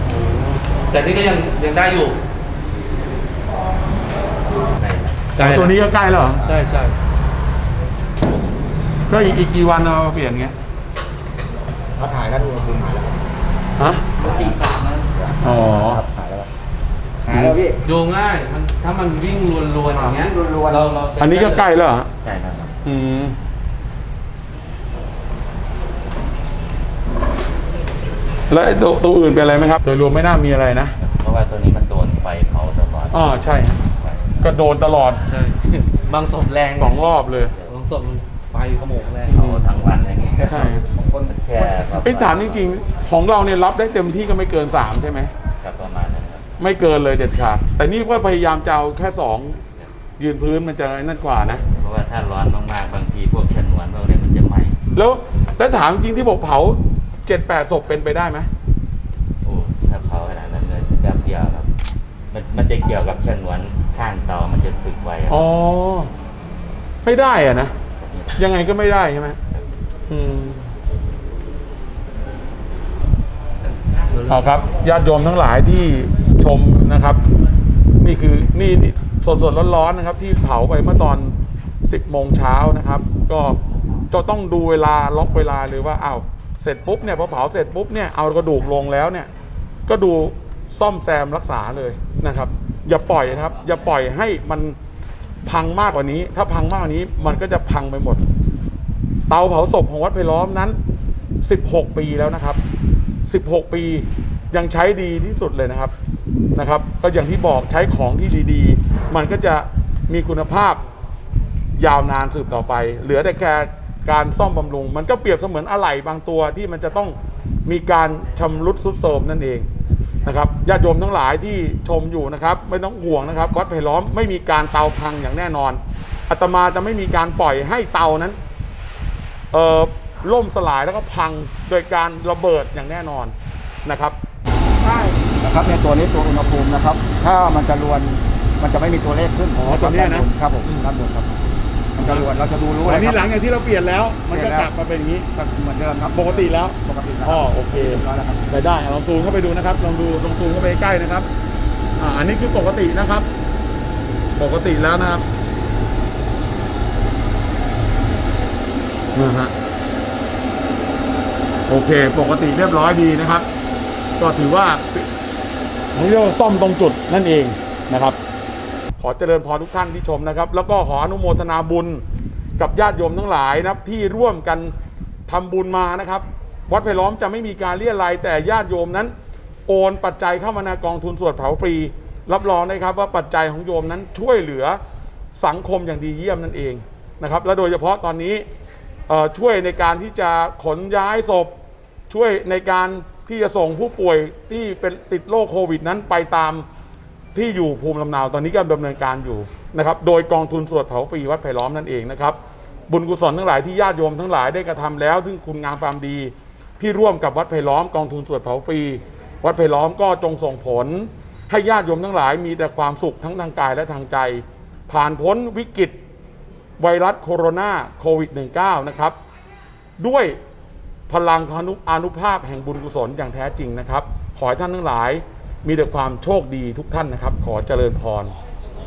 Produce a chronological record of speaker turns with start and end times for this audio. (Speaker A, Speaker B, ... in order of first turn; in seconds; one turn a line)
Speaker A: 0.5-2.2
Speaker B: 4.8-5.3
Speaker A: 5.3-5.8
Speaker C: 5.4-6.5
Speaker A: 6.4-7.0
Speaker C: 9.1-10.5
Speaker D: 12.0-13.2
Speaker C: 13.8-14.1
Speaker A: 14.2-15.1
Speaker D: 14.2-16.5
Speaker C: 15.4-16.0
Speaker D: 17.2-17.8
Speaker C: 17.3-17.6
Speaker A: 17.8-21.7
Speaker D: 20.0-20.9
Speaker C: 21.2-22.1
Speaker B: 22.2-22.7
Speaker C: 22.9-23.4
Speaker C: 28.5-30.9
Speaker B: 31.0-34.3
Speaker C: 33.1-33.8
Speaker C: 34.4-35.2
Speaker A: 35.3-37.0
Speaker C: 36.8-37.6
Speaker B: 37.5-37.8
Speaker A: 37.7-39.4
Speaker B: 39.2-42.7
Speaker C: 39.3-39.7
Speaker C: 40.5-40.9
Speaker D: 40.9-41.4
Speaker C: 41.8-45.3
Speaker B: 45.6-46.5
Speaker C: 46.6-49.6
Speaker C: 50.2-51.6
Speaker B: 51.6-54.8
Speaker C: 54.9-58.5
Speaker B: 59.4-61.7
Speaker B: 62.3-65.5
Speaker C: 65.3-66.1
Speaker C: 67.0-67.7
Speaker B: 68.0-68.4
Speaker C: 68.4-69.4
Speaker C: 70.1-70.7
Speaker C: 74.3-77.2
Speaker C: 78.0-81.3
Speaker C: 81.8-83.6
Speaker C: 84.1-89.3
Speaker C: 89.9-94.8
Speaker B: 93.3-93.8
Speaker C: 95.5-98.2
Speaker C: 99.3-100.8
Speaker C: 101.4-102.6
Speaker C: 103.3-105.9
Speaker C: 106.5-110.8
Speaker C: 111.8-119.7
Speaker C: 120.2-128.4
Speaker C: 129.5-134.2
Speaker D: 134.8-141.3
Speaker C: 139.5-140.3
Speaker D: 141.9-143.2
Speaker C: 142.8-145.3
Speaker D: 144.3-144.7
Speaker D: 145.3-148.4
Speaker C: 146.1-151.3
Speaker C: 152.0-153.3
Speaker C: 154.4-155.2
Speaker C: 159.2-159.5
Speaker C: 161.7-163.5
Speaker C: 164.2-165.1
Speaker C: 165.9-168.2
Speaker C: 169.0-172.0
Speaker C: 172.6-174.7
Speaker C: 175.3-179.1
Speaker C: 179.7-184.8
Speaker C: 185.3-188.4
Speaker C: 189.1-191.5
Speaker C: 192.1-196.7
Speaker C: 197.3-202.4
Speaker C: 202.9-216.0
Speaker C: 216.8-219.2
Speaker C: 220.0-220.4
Speaker C: 221.1-228.3